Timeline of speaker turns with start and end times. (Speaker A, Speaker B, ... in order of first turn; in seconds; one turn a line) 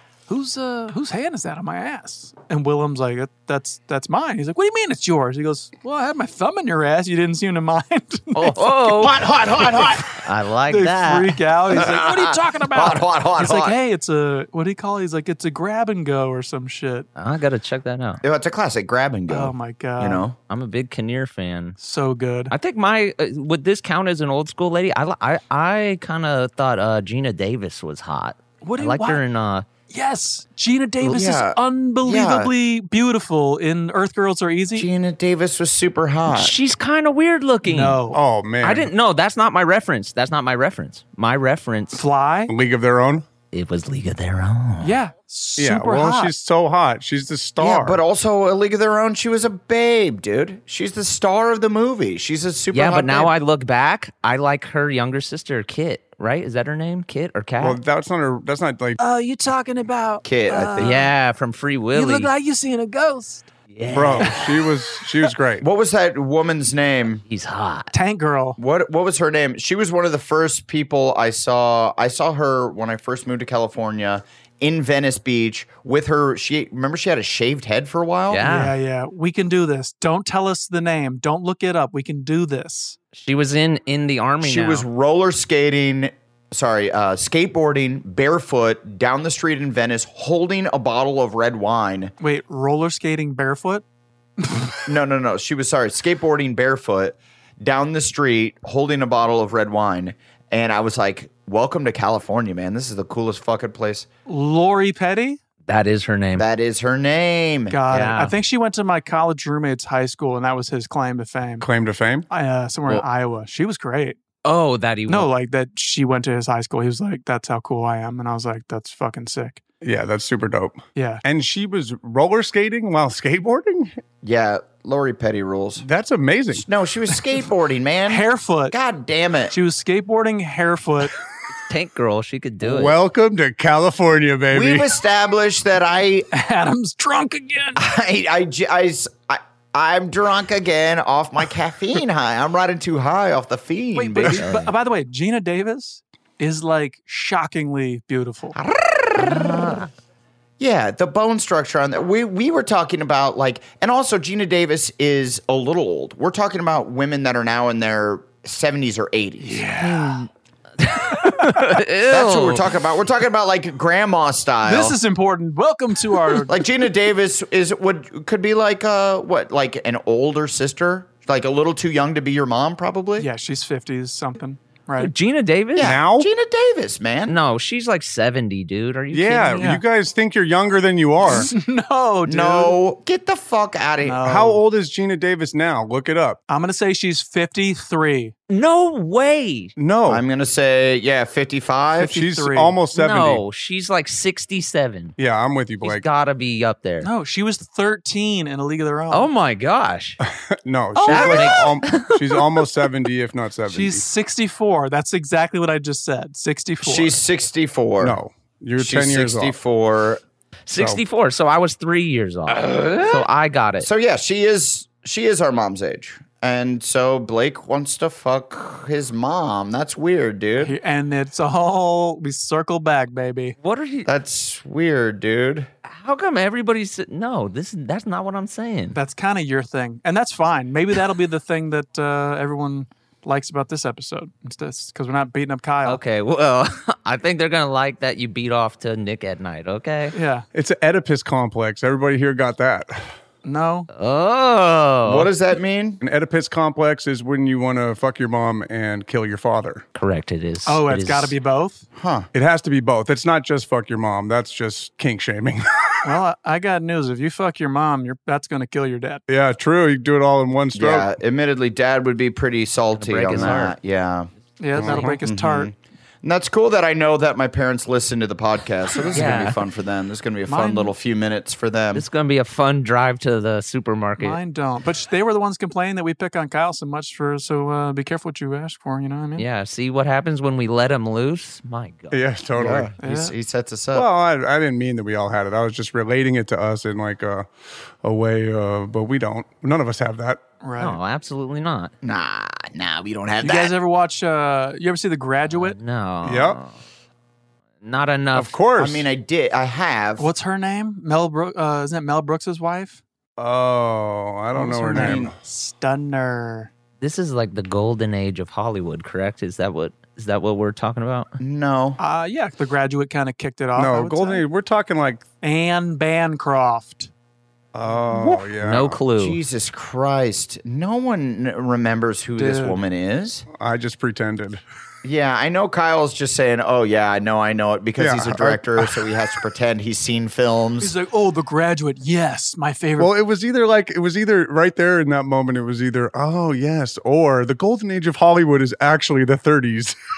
Speaker A: 0.3-17.1
Speaker B: 8.3-9.3
Speaker B: 9.8-11.4
Speaker C: 11.7-13.8
Speaker B: 17.1-18.2
Speaker C: 18.2-20.4
Speaker A: 19.3-20.2
Speaker B: 20.5-21.8
Speaker A: 21.8-22.5
Speaker B: 22.5-29.7
Speaker A: 28.6-29.2
Speaker A: 29.9-34.9
Speaker C: 31.0-32.5
Speaker C: 34.7-36.5
Speaker B: 36.3-38.0
Speaker A: 37.6-38.2
Speaker D: 38.1-38.9
Speaker B: 38.6-42.0
Speaker A: 41.9-42.5
Speaker D: 42.5-43.2
Speaker B: 43.5-45.0
Speaker A: 44.8-46.3
Speaker D: 45.6-48.0
Speaker C: 47.6-53.3
Speaker B: 52.7-57.8
Speaker D: 57.6-59.0
Speaker A: 59.0-61.0
Speaker C: 60.2-61.1
Speaker B: 60.8-62.3
Speaker A: 61.9-63.4
Speaker B: 63.7-64.7
Speaker D: 63.9-65.6
Speaker C: 65.6-67.2
Speaker B: 67.3-67.9
Speaker A: 67.9-68.6
Speaker C: 68.6-78.5
Speaker B: 78.3-78.8
Speaker A: 78.4-83.0
Speaker B: 83.1-84.8
Speaker C: 84.4-92.1
Speaker A: 92.2-93.8
Speaker A: 94.4-94.8
Speaker C: 94.8-104.1
Speaker A: 104.3-105.4
Speaker B: 105.7-106.5
Speaker C: 106.3-107.8
Speaker A: 107.7-111.7
Speaker B: 107.9-108.3
Speaker D: 111.6-112.3
Speaker A: 112.3-114.2
Speaker B: 114.4-115.3
Speaker A: 115.1-119.6
Speaker D: 119.8-123.9
Speaker A: 120.9-121.2
Speaker C: 124.2-125.8
Speaker D: 125.8-126.6
Speaker C: 126.5-129.5
Speaker A: 128.1-128.8
Speaker A: 129.5-131.1
Speaker B: 131.5-132.9
Speaker D: 132.6-134.9
Speaker C: 134.5-136.3
Speaker A: 136.3-137.8
Speaker C: 137.8-144.5
Speaker A: 143.9-148.6
Speaker B: 144.4-144.7
Speaker C: 148.5-149.8
Speaker B: 149.2-149.8
Speaker C: 150.6-159.6
Speaker A: 159.4-160.3
Speaker B: 159.8-160.2
Speaker B: 160.8-162.7
Speaker C: 162.1-165.0
Speaker A: 164.6-166.6
Speaker C: 166.4-173.3
Speaker A: 173.2-175.1
Speaker B: 175.0-175.9
Speaker C: 175.8-177.3
Speaker D: 175.8-176.3
Speaker B: 177.3-179.7
Speaker D: 179.1-181.5
Speaker A: 181.2-182.8
Speaker C: 182.2-184.2
Speaker A: 184.0-184.6
Speaker D: 184.2-186.4
Speaker A: 186.5-188.3
Speaker B: 188.5-189.7
Speaker D: 189.8-190.2
Speaker C: 190.1-192.2
Speaker A: 192.0-192.8
Speaker D: 192.1-193.4
Speaker B: 192.9-195.1
Speaker D: 195.2-196.0
Speaker B: 195.8-197.1
Speaker A: 197.0-199.3
Speaker B: 199.1-200.2
Speaker D: 200.2-204.0
Speaker A: 200.9-201.7
Speaker B: 201.1-202.6
Speaker A: 203.7-207.2
Speaker C: 206.8-208.2
Speaker D: 208.0-209.5
Speaker C: 208.8-210.2
Speaker B: 210.7-213.9
Speaker D: 210.8-211.0
Speaker C: 213.8-220.7
Speaker A: 220.6-223.6
Speaker B: 223.6-224.1
Speaker C: 224.1-225.7
Speaker B: 225.8-229.0
Speaker A: 228.9-236.0
Speaker B: 235.8-240.1
Speaker A: 240.1-240.4
Speaker D: 240.5-243.1
Speaker A: 243.4-243.9
Speaker B: 243.9-245.3
Speaker C: 245.0-246.0
Speaker D: 246.0-249.8
Speaker B: 249.9-251.3
Speaker A: 250.7-251.8
Speaker C: 251.9-252.3
Speaker D: 252.3-256.0
Speaker A: 256.0-259.2
Speaker D: 259.3-261.1
Speaker C: 260.7-272.1
Speaker B: 262.9-263.7
Speaker A: 264.6-265.7
Speaker B: 264.7-265.2
Speaker B: 269.1-269.6
Speaker A: 270.5-270.9
Speaker B: 271.9-274.4
Speaker A: 274.2-279.4
Speaker B: 279.4-282.2
Speaker D: 282.1-282.9
Speaker C: 282.6-284.1
Speaker A: 283.0-283.3
Speaker D: 283.9-287.5
Speaker D: 288.0-290.4
Speaker A: 290.6-291.0
Speaker B: 290.8-291.9
Speaker C: 292.0-293.7
Speaker A: 293.4-295.8
Speaker B: 295.5-296.7
Speaker D: 296.2-296.6
Speaker B: 297.8-298.5
Speaker D: 298.3-299.1
Speaker C: 298.8-300.3
Speaker A: 300.2-303.0
Speaker D: 303.4-305.3
Speaker A: 304.5-306.7
Speaker C: 304.9-305.3
Speaker B: 307.0-311.3
Speaker C: 311.4-312.0
Speaker A: 312.0-314.4
Speaker D: 313.8-315.2
Speaker A: 315.4-317.1
Speaker D: 317.7-319.0
Speaker C: 318.1-318.4
Speaker B: 318.6-319.4
Speaker C: 319.2-323.4
Speaker A: 322.4-322.8
Speaker D: 323.5-324.6
Speaker C: 325.0-330.9
Speaker D: 328.0-328.9
Speaker A: 330.8-333.1
Speaker D: 333.0-339.9